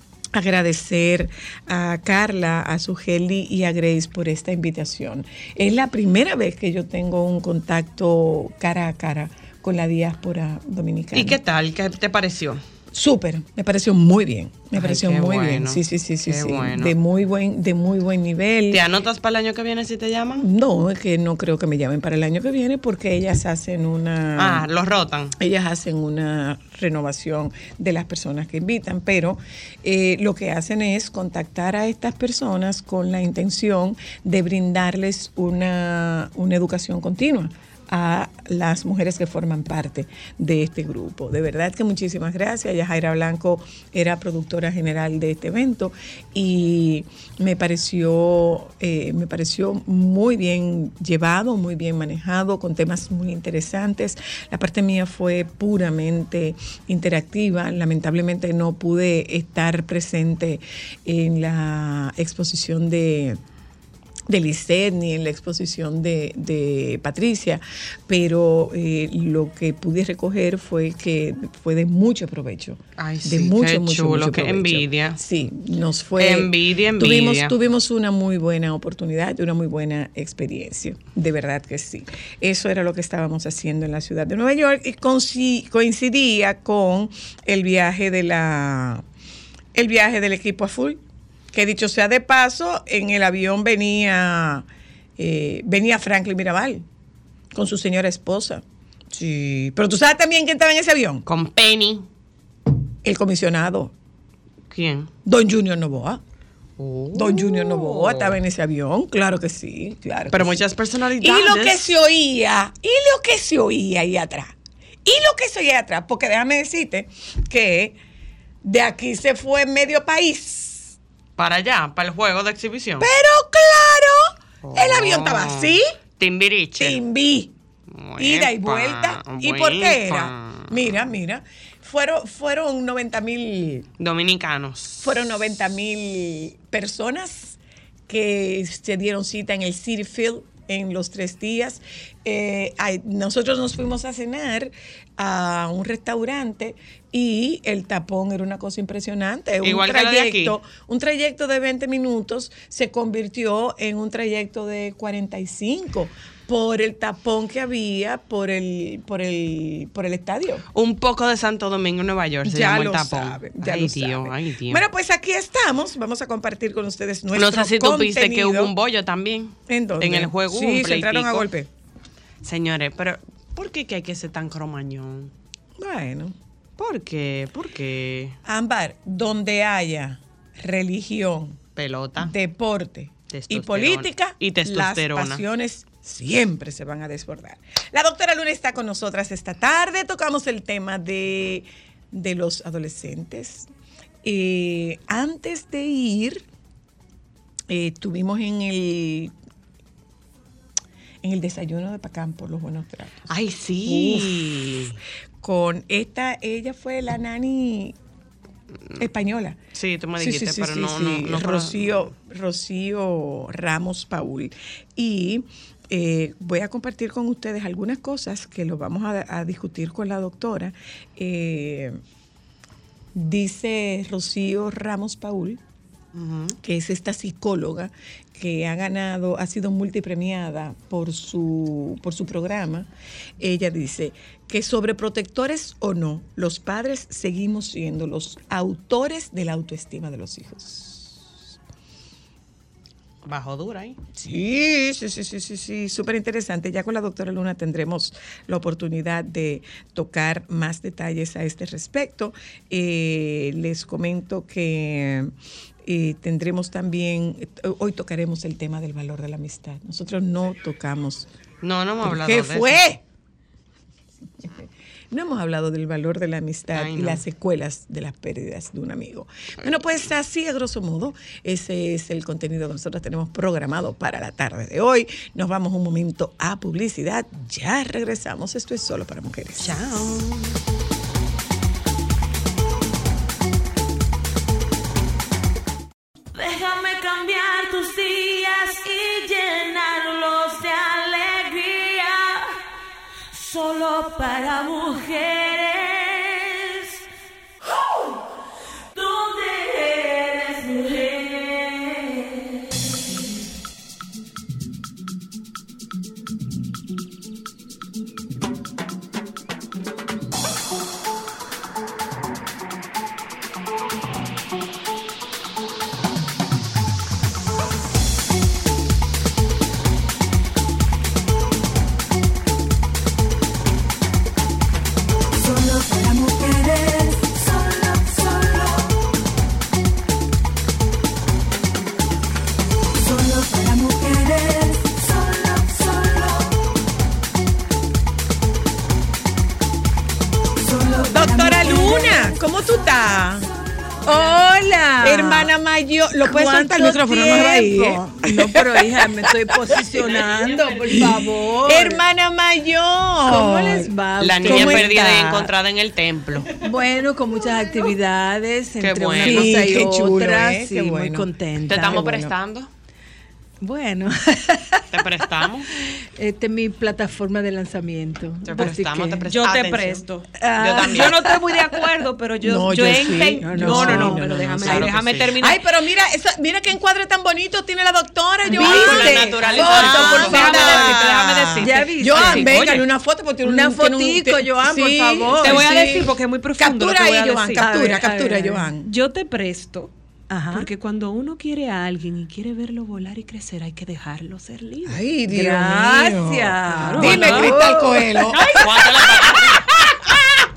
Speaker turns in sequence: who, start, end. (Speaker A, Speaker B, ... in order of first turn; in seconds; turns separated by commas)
Speaker A: 0.3-11.4, Speaker B: 11.1-12.6, Speaker A: 12.9-18.8, Speaker B: 14.8-16.9, Speaker B: 18.7-20.5, Speaker A: 20.4-24.6, Speaker B: 24.4-25.3, Speaker A: 25.4-63.4, Speaker A: 64.3-89.0, Speaker B: 73.0-75.2, Speaker B: 76.2-77.5, Speaker A: 89.7-91.0, Speaker A: 91.5-94.7, Speaker A: 95.2-96.8, Speaker A: 97.5-101.2, Speaker B: 101.2-102.1, Speaker A: 103.0-103.9, Speaker B: 104.7-105.1, Speaker A: 105.2-106.2, Speaker B: 106.8-108.4, Speaker A: 107.1-110.6, Speaker B: 110.3-111.9, Speaker A: 111.2-118.0, Speaker A: 118.6-121.0, Speaker B: 121.4-123.1, Speaker A: 123.0-125.8, Speaker B: 124.6-127.0, Speaker A: 126.8-127.5, Speaker B: 127.9-130.8, Speaker A: 128.2-133.9, Speaker B: 134.0-135.1, Speaker A: 135.0-160.7, Speaker B: 149.6-150.5, Speaker B: 160.7-164.8, Speaker A: 162.4-168.7, Speaker B: 167.3-171.5, Speaker A: 169.7-171.7, Speaker B: 172.4-175.3, Speaker A: 175.8-176.3, Speaker B: 176.8-178.3, Speaker A: 178.4-181.6, Speaker B: 181.8-182.3, Speaker A: 182.2-193.7, Speaker B: 183.3-185.4, Speaker A: 194.2-196.4, Speaker A: 197.7-199.3, Speaker A: 201.2-203.3, Speaker B: 203.3-205.0, Speaker A: 203.8-207.9, Speaker A: 209.0-209.6, Speaker B: 209.7-211.9, Speaker A: 210.2-222.0, Speaker A: 223.2-225.6, Speaker B: 226.1-226.6, Speaker A: 226.6-241.4, Speaker B: 243.2-244.0, Speaker A: 244.2-255.3, Speaker A: 255.8-261.3, Speaker B: 261.6-262.8, Speaker A: 262.0-263.0, Speaker A: 264.4-279.8, Speaker B: 266.7-267.2, Speaker B: 279.6-280.5, Speaker C: 286.3-292.5, Speaker C: 293.3-297.0, Speaker C: 298.9-302.7, Speaker C: 325.4-328.9, Speaker C: 333.0-336.5, Speaker C: 340.6-342.2, Speaker A: 341.1-343.5, Speaker D: 344.1-345.5, Speaker A: 345.0-348.9, Speaker D: 346.2-352.0, Speaker A: 350.9-353.9, Speaker D: 353.2-354.9, Speaker B: 354.2-356.5, Speaker A: 354.4-355.5, Speaker D: 356.6-362.0, Speaker B: 358.8-359.6, Speaker A: 359.2-362.4, Speaker B: 361.7-362.7, Speaker D: 363.6-365.0, Speaker B: 364.9-365.7, Speaker D: 365.7-369.2, Speaker B: 368.4-370.0, Speaker E: 369.3-370.3, Speaker D: 370.4-371.1, Speaker B: 370.6-371.2, Speaker E: 370.8-375.6, Speaker A: 372.4-388.9, Speaker D: 373.5-374.1, Speaker B: 373.6-374.0, Speaker B: 374.6-375.3, Speaker D: 378.4-380.7, Speaker B: 378.5-381.0, Speaker E: 379.7-382.9, Speaker D: 381.6-382.5, Speaker D: 383.4-385.7, Speaker E: 385.4-387.6, Speaker D: 387.6-388.7, Speaker E: 388.8-389.9, Speaker D: 390.3-390.7, Speaker E: 390.5-395.0, Speaker A: 394.9-400.4, Speaker D: 395.3-398.2, Speaker E: 396.7-397.5, Speaker E: 398.3-399.5, Speaker B: 398.4-399.6